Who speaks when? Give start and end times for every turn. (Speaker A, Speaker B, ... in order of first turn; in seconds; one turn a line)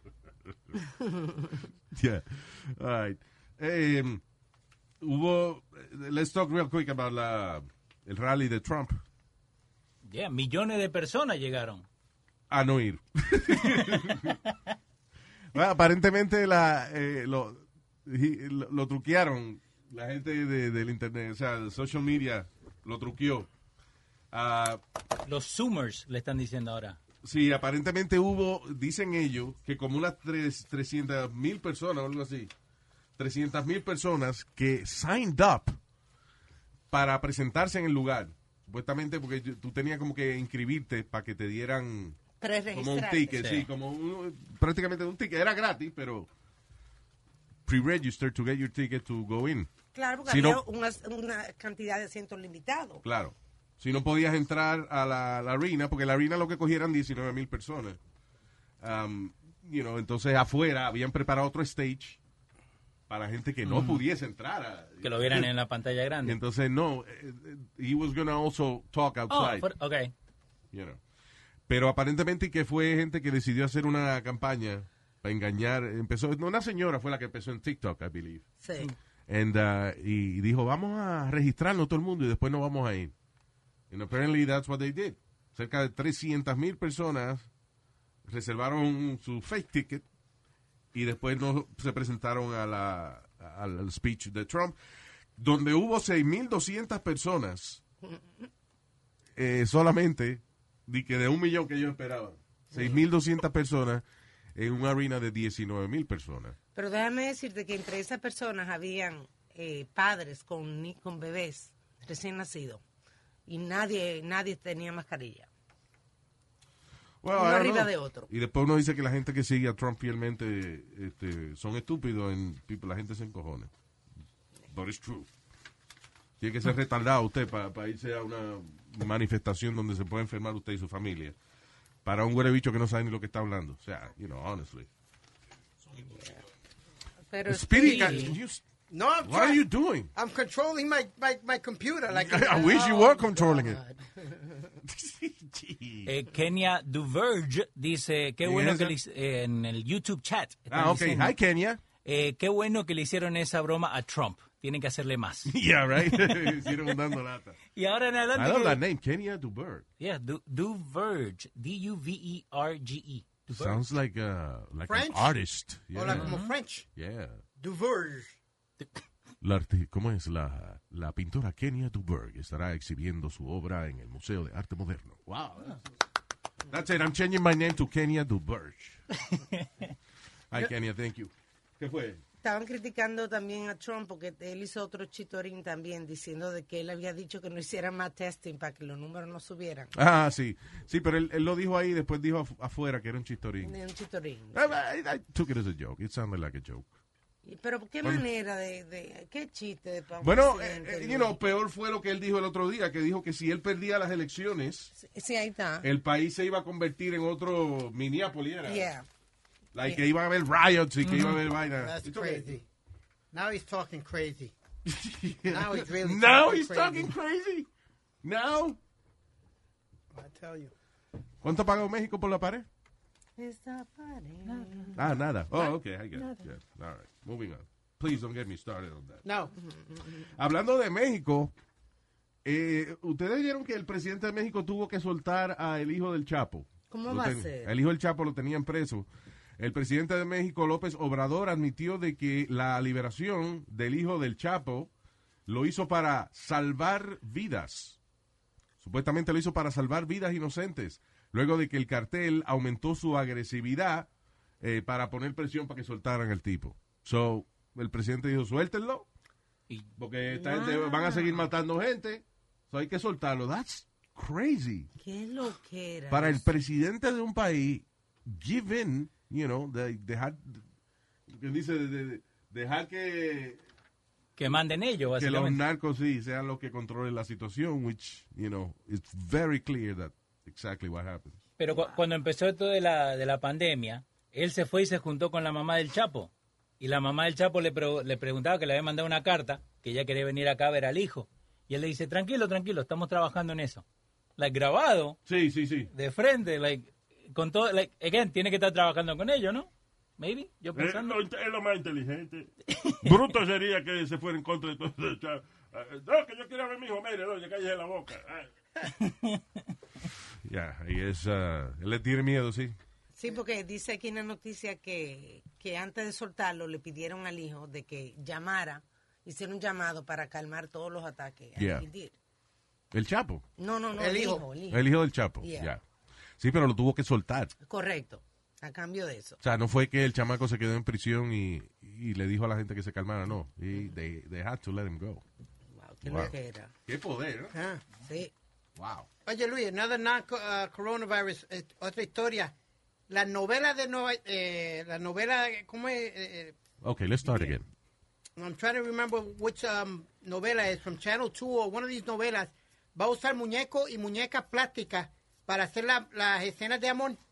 Speaker A: 0.8-1.6
Speaker B: 1.9-4.2
Speaker B: 5.0-9.0
Speaker C: 10.0-11.8
Speaker B: 12.5-14.4
Speaker C: 13.6-14.5
Speaker B: 15.5-23.5
Speaker B: 24.3-24.8
Speaker C: 25.2-27.0
Speaker B: 27.2-32.5
Speaker B: 33.2-35.8
Speaker B: 36.9-42.2
Speaker A: 42.4-43.5
Speaker B: 42.7-46.3
Speaker C: 43.4-43.7
Speaker B: 47.6-49.7
Speaker A: 49.9-53.0
Speaker B: 50.2-50.6
Speaker B: 53.0-58.0
Speaker B: 58.8-62.2
Speaker B: 63.1-65.5
Speaker C: 63.6-64.0
Speaker C: 65.0-66.4
Speaker B: 66.2-69.7
Speaker C: 69.3-70.1
Speaker B: 70.7-71.0
Speaker B: 71.7-78.4
Speaker A: 78.6-78.9
Speaker B: 79.3-83.1
Speaker B: 83.9-87.5
Speaker B: 88.2-90.0
Speaker B: 90.9-94.8
Speaker B: 95.3-97.8
Speaker A: 98.0-98.5
Speaker B: 99.3-104.0
Speaker A: 102.7-103.0
Speaker B: 104.5-106.5
Speaker A: 106.7-112.8
Speaker A: 113.5-115.5
Speaker B: 117.2-123.7
Speaker A: 117.3-118.3
Speaker B: 124.7-125.3
Speaker B: 126.4-131.3
Speaker B: 132.0-134.9
Speaker A: 135.9-136.4
Speaker A: 137.2-138.4
Speaker B: 137.4-138.6
Speaker C: 137.8-138.3
Speaker D: 138.9-142.8
Speaker B: 139.2-140.1
Speaker B: 142.1-143.8
Speaker A: 142.5-144.7
Speaker B: 144.8-146.1
Speaker C: 146.1-151.3
Speaker B: 148.4-148.9
Speaker B: 150.7-151.8
Speaker C: 152.0-156.8
Speaker B: 155.4-157.6
Speaker C: 157.7-158.8
Speaker B: 158.3-159.8
Speaker C: 160.0-163.8
Speaker B: 163.5-166.4
Speaker D: 164.9-165.3
Speaker D: 165.9-166.9
Speaker C: 166.1-166.5
Speaker B: 166.9-167.4
Speaker D: 167.6-168.3
Speaker B: 169.4-175.8
Speaker B: 176.7-179.0
Speaker C: 179.3-179.9
Speaker B: 180.5-182.2
Speaker A: 182.4-189.9
Speaker B: 189.9-193.7
Speaker A: 193.6-194.7
Speaker B: 194.5-196.9
Speaker A: 197.4-201.4
Speaker B: 200.2-204.9
Speaker A: 204.9-205.9
Speaker B: 205.8-208.9
Speaker A: 208.6-209.1
Speaker B: 209.7-212.6
Speaker C: 211.0-211.4
Speaker D: 211.8-212.6
Speaker D: 213.3-214.5
Speaker B: 214.8-217.7
Speaker D: 215.5-217.1
Speaker B: 218.2-218.8
Speaker D: 220.1-220.7
Speaker B: 221.4-222.7
Speaker A: 223.4-226.4
Speaker C: 224.5-224.8
Speaker B: 224.9-229.2
Speaker D: 229.2-229.5
Speaker A: 229.6-230.2
Speaker B: 230.3-231.5
Speaker B: 232.4-244.9
Speaker A: 236.9-237.7
Speaker B: 245.5-248.0
Speaker B: 248.8-254.1
Speaker B: 254.6-259.1
Speaker B: 260.0-264.9
Speaker A: 260.3-261.3
Speaker A: 265.0-266.4
Speaker B: 266.1-270.6
Speaker B: 271.3-273.6
Speaker C: 274.4-275.6
Speaker B: 275.1-281.4
Speaker C: 281.6-293.8
Speaker C: 294.4-295.2
Speaker B: 295.2-295.9
Speaker C: 295.9-301.2
Speaker E: 300.7-302.5
Speaker C: 302.8-303.1
Speaker E: 303.0-308.5
Speaker C: 309.0-309.4
Speaker B: 310.4-312.7
Speaker A: 313.1-322.1
Speaker B: 321.6-321.9
Speaker B: 322.9-323.4
Speaker A: 323.6-324.9
Speaker D: 323.9-324.4
Speaker B: 324.7-325.8
Speaker A: 325.4-325.7
Speaker B: 326.4-327.5
Speaker A: 327.6-329.4
Speaker B: 329.4-335.2
Speaker A: 335.7-336.7
Speaker B: 336.0-336.3
Speaker B: 336.9-337.6
Speaker D: 337.5-337.8
Speaker A: 338.0-338.3
Speaker B: 338.8-339.1
Speaker D: 339.2-342.5
Speaker D: 343.1-346.6
Speaker B: 346.8-347.7
Speaker D: 348.4-357.2